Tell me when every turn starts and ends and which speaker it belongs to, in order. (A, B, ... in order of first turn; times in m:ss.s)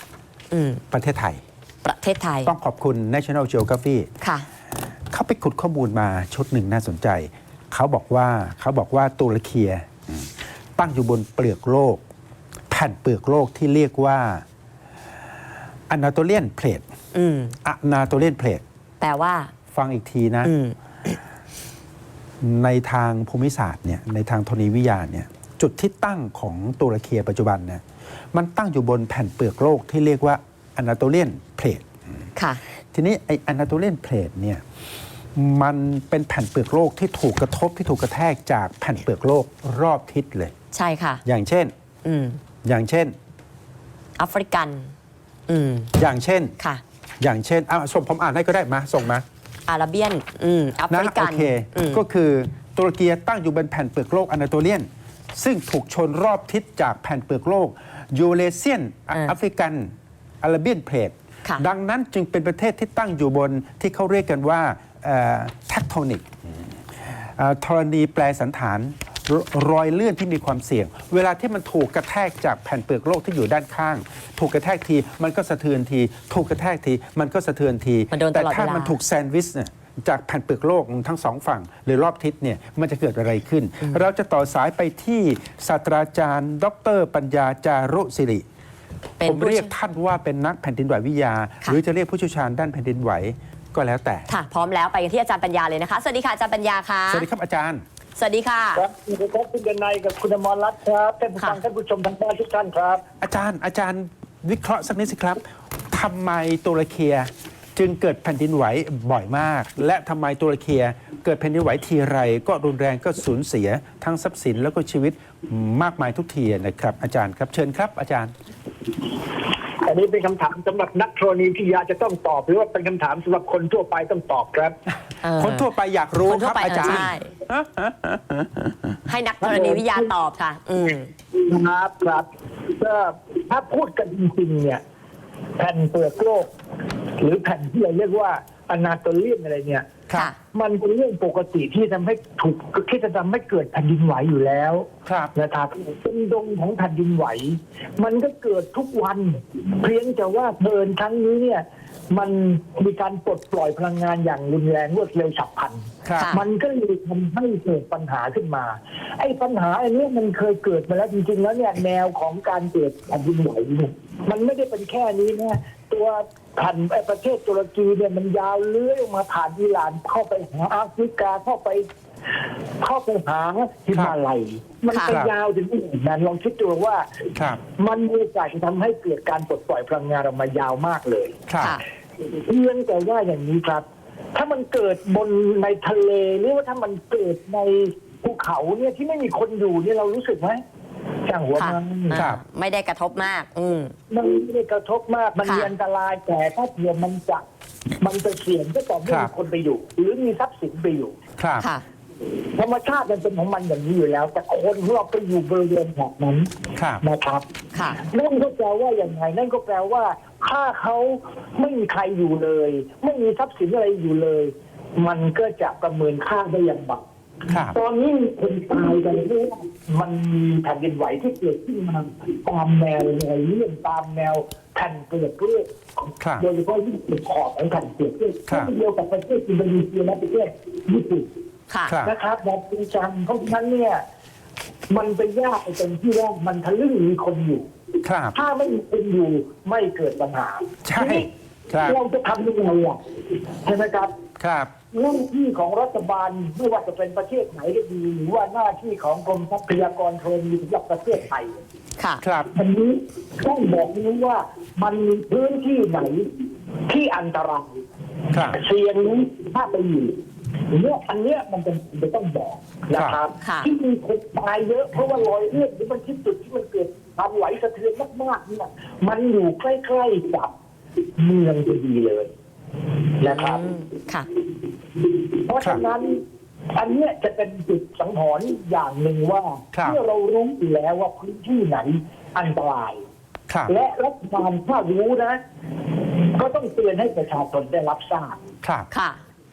0:00.5-0:00.8 A
0:00.9-0:01.4 B
0:01.8-0:02.5 A
0:02.4-0:04.1 B
0:04.2-0:04.5 A
0:05.1-0:12.0 B
0:12.7-0:14.4 B
0:15.9-0:16.8 B
0:17.1-0:17.6 A
0:17.6-0:18.6 B
0:19.0-0:19.5 A
0:19.7-0:20.5 B
0:20.4-0:21.2 A
0:22.4-0:27.8 B
0:28.3-0:31.8 B
0:32.4-0:32.6 A
0:32.9-0:34.6 B
0:35.3-0:40.5 B
0:40.7-0:41.2 A
0:41.2-0:41.7 B
0:42.0-0:42.4 A
0:42.6-0:43.1 B
0:44.2-0:44.9 A
0:45.5-0:45.9 A
0:46.0-0:46.5 B
0:47.2-0:49.2 B
0:49.7-0:52.0 A
0:50.9-0:59.9 B
1:00.4-1:06.2 B
1:07.0-1:28.4 B
1:18.1-1:19.0 A
1:29.2-1:29.7 A
1:29.2-1:34.3 B
1:34.3-1:37.3 A
1:37.1-1:37.8 B
1:38.2-1:38.8 A
1:38.7-1:43.0 C
1:43.2-1:58.3 B
1:59.8-2:04.8 C
2:05.2-2:05.7 A
2:05.4-2:08.7 B
2:06.2-2:07.3 A
2:09.1-2:11.1 A
2:09.4-2:10.1 C
2:11.3-2:14.8 C
2:15.6-2:16.5 C
2:17.2-2:19.9 C
2:20.5-2:51.9 C
2:25.0-2:25.3 B
2:36.0-2:36.3 B
2:36.2-2:36.4 A
2:52.8-2:57.1 C
2:55.1-2:55.3 B
2:57.8-3:01.4 C
3:01.5-3:01.8 B
3:02.2-3:10.6 C
3:11.2-3:12.2 C
3:11.6-3:13.9 A
3:14.1-3:17.4 C
3:15.4-3:15.7 A
3:18.0-3:21.1 C
3:21.4-3:21.7 B
3:21.6-3:21.8 A
3:22.6-3:26.5 C
3:26.8-3:27.0 B
3:27.0-3:27.4 C
3:27.7-3:28.0 A
3:28.0-3:37.0 C
3:37.5-3:37.8 B
3:37.7-3:51.3 C
3:46.2-3:46.4 B
3:48.5-3:48.7 B
3:51.9-3:52.1 B
3:52.0-3:54.0 C
3:54.9-3:57.7 C
3:58.0-3:58.3 B
3:58.3-4:01.3 C
4:00.8-4:02.0 B
4:01.8-4:04.1 C
4:04.4-4:04.7 B
4:04.9-4:11.6 C
4:12.0-4:12.2 A
4:12.2-4:12.5 B
4:12.5-4:17.8 C
4:18.5-4:30.5 C
4:22.9-4:23.2 B
4:23.4-4:23.7 A
4:31.2-4:32.3 C
4:33.2-4:33.6 C
4:33.2-4:34.3 A
4:35.4-4:36.2 C
4:36.7-4:43.0 C
4:39.7-4:40.0 B
4:43.7-4:45.4 C
4:46.2-4:48.4 C
4:48.6-4:48.9 B
4:48.9-4:49.2 A